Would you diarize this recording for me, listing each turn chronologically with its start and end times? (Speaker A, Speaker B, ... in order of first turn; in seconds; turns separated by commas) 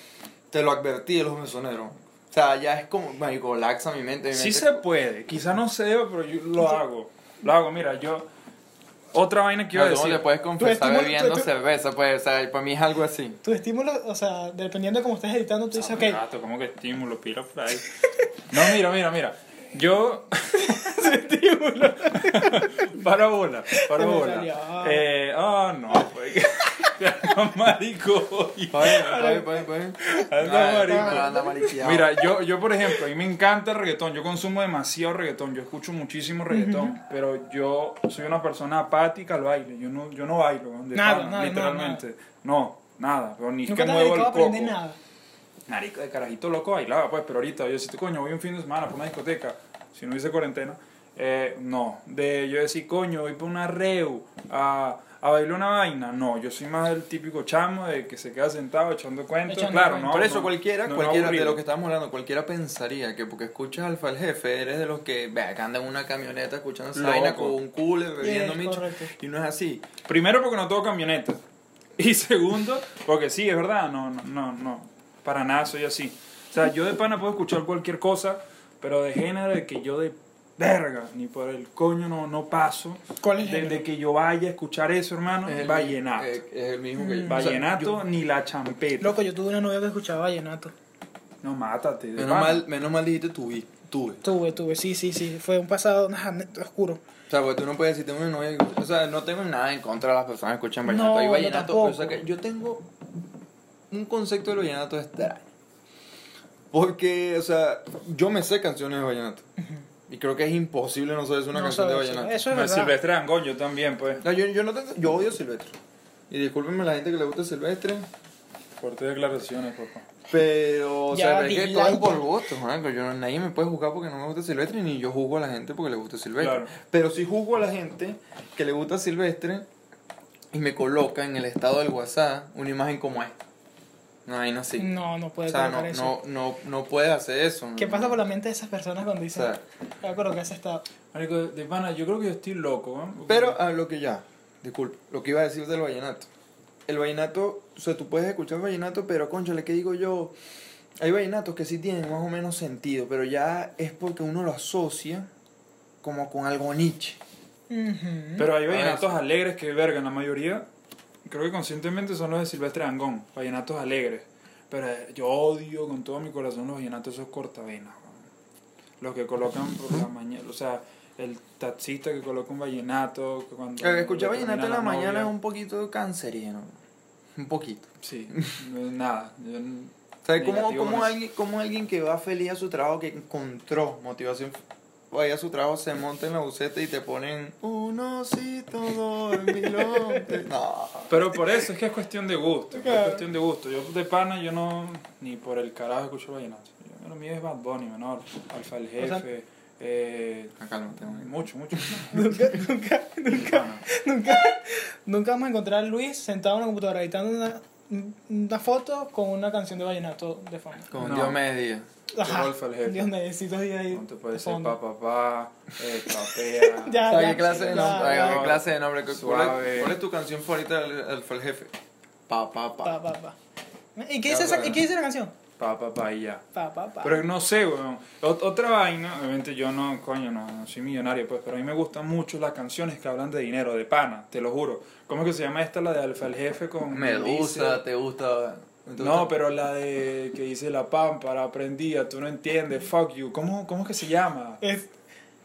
Speaker A: 0.5-4.8, Speaker B: 4.3-8.3, Speaker B: 9.1-10.3, Speaker A: 9.7-13.4, Speaker C: 10.6-11.5, Speaker C: 13.4-16.2, Speaker B: 15.7-17.9, Speaker C: 18.0-18.3, Speaker B: 18.5-21.0, Speaker C: 20.6-22.9, Speaker B: 22.1-29.2, Speaker C: 23.7-25.0, Speaker A: 28.7-32.1, Speaker C: 28.9-29.7, Speaker B: 30.1-44.8, Speaker C: 30.9-31.7, Speaker C: 36.5-37.0, Speaker C: 40.9-42.0, Speaker C: 43.7-45.0, Speaker B: 45.7-61.6, Speaker C: 59.5-60.2, Speaker A: 60.0-69.9, Speaker B: 67.0-67.6, Speaker C: 68.2-69.1, Speaker B: 70.0-71.4, Speaker B: 72.0-86.4, Speaker C: 83.2-83.8, Speaker A: 85.5-88.0, Speaker C: 87.0-87.5, Speaker B: 87.3-89.2, Speaker C: 89.0-90.7, Speaker B: 91.4-92.7, Speaker A: 92.2-94.2, Speaker C: 94.2-97.0, Speaker A: 97.3-102.9, Speaker C: 100.8-102.2, Speaker A: 103.9-105.5, Speaker A: 106.7-109.5, Speaker A: 110.1-112.4, Speaker C: 111.5-113.0, Speaker B: 112.5-114.2, Speaker A: 114.2-115.8, Speaker A: 116.3-118.1, Speaker B: 118.8-120.1, Speaker A: 120.3-129.7, Speaker C: 121.1-122.3, Speaker B: 126.4-126.7, Speaker A: 130.5-133.4, Speaker A: 134.3-134.9, Speaker C: 134.8-136.2, Speaker A: 135.5-138.2, Speaker C: 137.8-140.8, Speaker A: 139.3-139.6, Speaker B: 141.1-143.6, Speaker A: 143.3-146.3, Speaker A: 146.9-150.3, Speaker A: 151.0-155.3, Speaker A: 156.0-157.2, Speaker C: 157.7-158.5, Speaker B: 158.4-160.7, Speaker A: 158.7-159.1, Speaker B: 161.3-168.2, Speaker B: 169.0-175.3, Speaker A: 173.8-176.8, Speaker A: 177.3-178.6, Speaker B: 178.0-181.1, Speaker A: 180.2-191.2, Speaker C: 189.5-190.4, Speaker B: 191.1-202.3, Speaker C: 192.7-193.2, Speaker C: 199.0-199.2, Speaker A: 200.6-202.0, Speaker C: 202.1-210.9, Speaker B: 203.3-203.8, Speaker A: 210.9-211.9, Speaker B: 211.0-211.4, Speaker C: 212.1-214.8, Speaker B: 212.2-213.1, Speaker B: 213.9-220.0, Speaker C: 216.6-218.5, Speaker A: 217.1-221.7, Speaker A: 222.3-223.0, Speaker C: 222.8-223.4, Speaker C: 224.0-225.3, Speaker A: 224.3-224.8, Speaker B: 225.6-226.4, Speaker C: 226.5-227.3, Speaker B: 227.0-237.8, Speaker A: 236.9-239.3, Speaker B: 239.0-244.6, Speaker C: 244.6-244.9